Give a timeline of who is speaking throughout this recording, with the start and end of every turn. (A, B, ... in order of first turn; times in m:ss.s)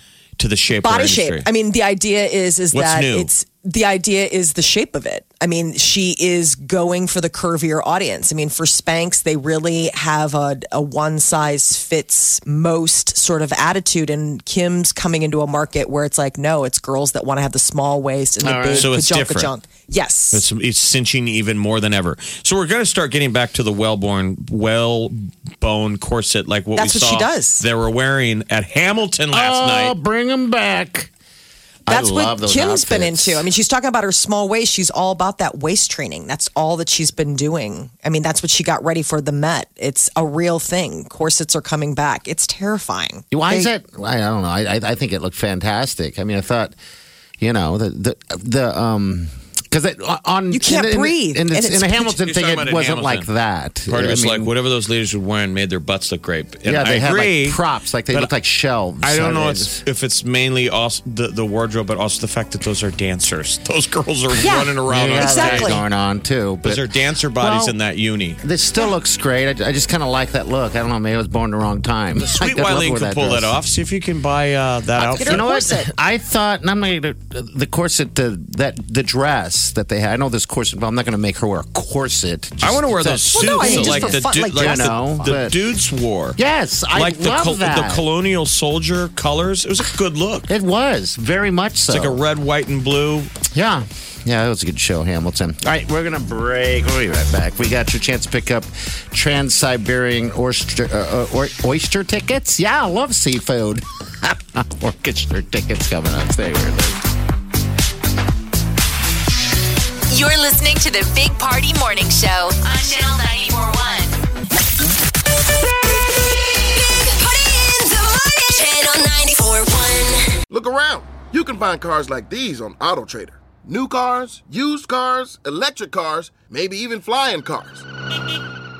0:00.4-0:01.5 A
0:00.8-0:20.4 B
0:02.7-0:03.3 A
0:18.4-0:18.9 C
0:18.7-0:19.5 A
0:20.3-0:30.0 A
0:26.8-0:27.6 B
0:29.3-0:31.1 C
0:31.9-0:33.5 C
0:31.9-0:43.7 B
0:43.3-0:46.7 C
0:47.4-0:54.5 C
0:50.5-0:52.2 B
0:52.2-0:53.3 A
0:53.9-0:58.3 A
0:56.6-0:59.8 C
0:59.0-1:05.8 A
1:04.4-1:05.8 B
1:04.9-1:06.8 C
1:06.6-1:08.4 A
1:07.4-1:07.7 C
1:08.4-1:13.5 C
1:12.2-1:15.4 A
1:15.0-1:25.5 C
1:15.0-1:15.9 B
1:22.6-1:26.4 A
1:23.3-1:25.4 B
1:26.4-1:28.0 C
1:26.9-1:30.5 A
1:30.5-1:32.2 C
1:31.9-1:33.3 A
1:33.5-1:47.0 C
1:50.1-1:54.2 D
1:56.9-2:00.3 D
2:00.5-2:07.8 E